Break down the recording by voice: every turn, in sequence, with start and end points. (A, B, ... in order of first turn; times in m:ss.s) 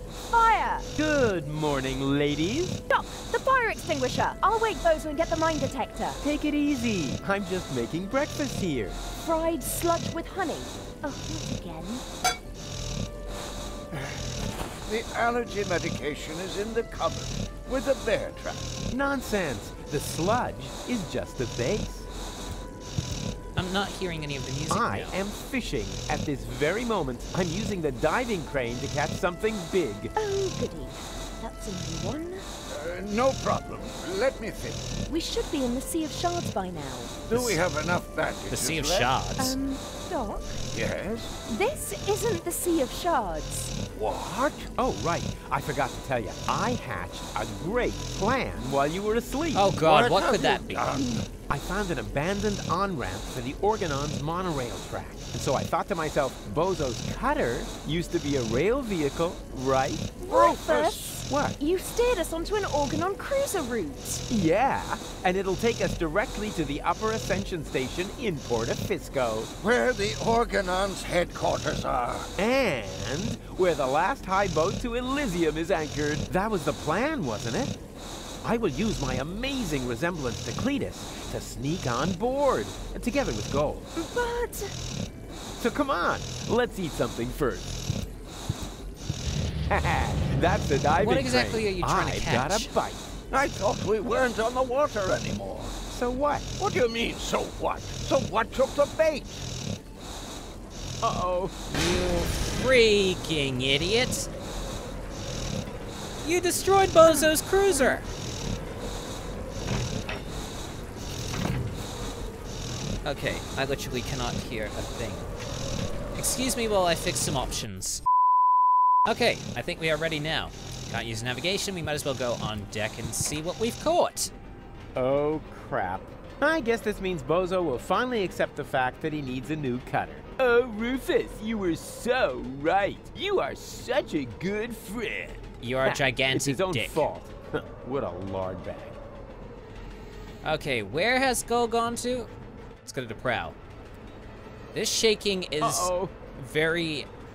0:00.3-0:00.9 A
0:01.0-0:02.8 B
0:02.9-0:06.2 A
0:06.2-0:09.0 B
0:09.2-0:12.0 A
0:13.9-0:14.2 C
0:14.8-0:18.7 C
0:18.9-0:22.1 B
0:23.6-0:25.2 D
0:24.7-0:30.1 B
0:30.2-0:32.5 A
0:32.7-0:34.9 C
0:35.1-0:37.2 A
0:37.3-0:39.1 C
0:37.3-0:37.6 D
0:38.5-0:39.6 D
0:39.4-0:40.6 A
0:40.7-0:41.3 C
0:41.5-0:43.7 A
0:43.9-0:44.7 C
0:44.8-0:49.8 B
0:49.5-0:51.0 D
0:49.7-0:51.3 C
0:51.5-1:00.2 B
1:00.2-1:04.2 A
1:00.3-1:01.2 C
1:01.3-1:01.6 B
1:04.3-1:09.5 B
1:09.6-1:12.3 C
1:12.4-1:17.7 B
1:18.4-1:23.9 B
1:24.0-1:24.7 A
1:25.6-1:27.8 B
1:29.7-1:33.1 B
1:31.0-1:32.7 D
1:33.3-1:35.8 C
1:35.9-1:36.5 B
1:36.6-1:39.4 C
1:41.0-1:41.6 B
1:41.7-1:44.3 D
1:46.2-1:48.0 D
1:53.0-1:55.3 D
1:56.2-1:58.0 D
1:59.0-2:04.3 D
2:04.9-2:19.0 B
2:15.6-2:17.1 D
2:20.4-2:22.3 D
2:22.8-2:23.6 D
2:24.7-2:27.1 D
2:25.6-2:26.1 B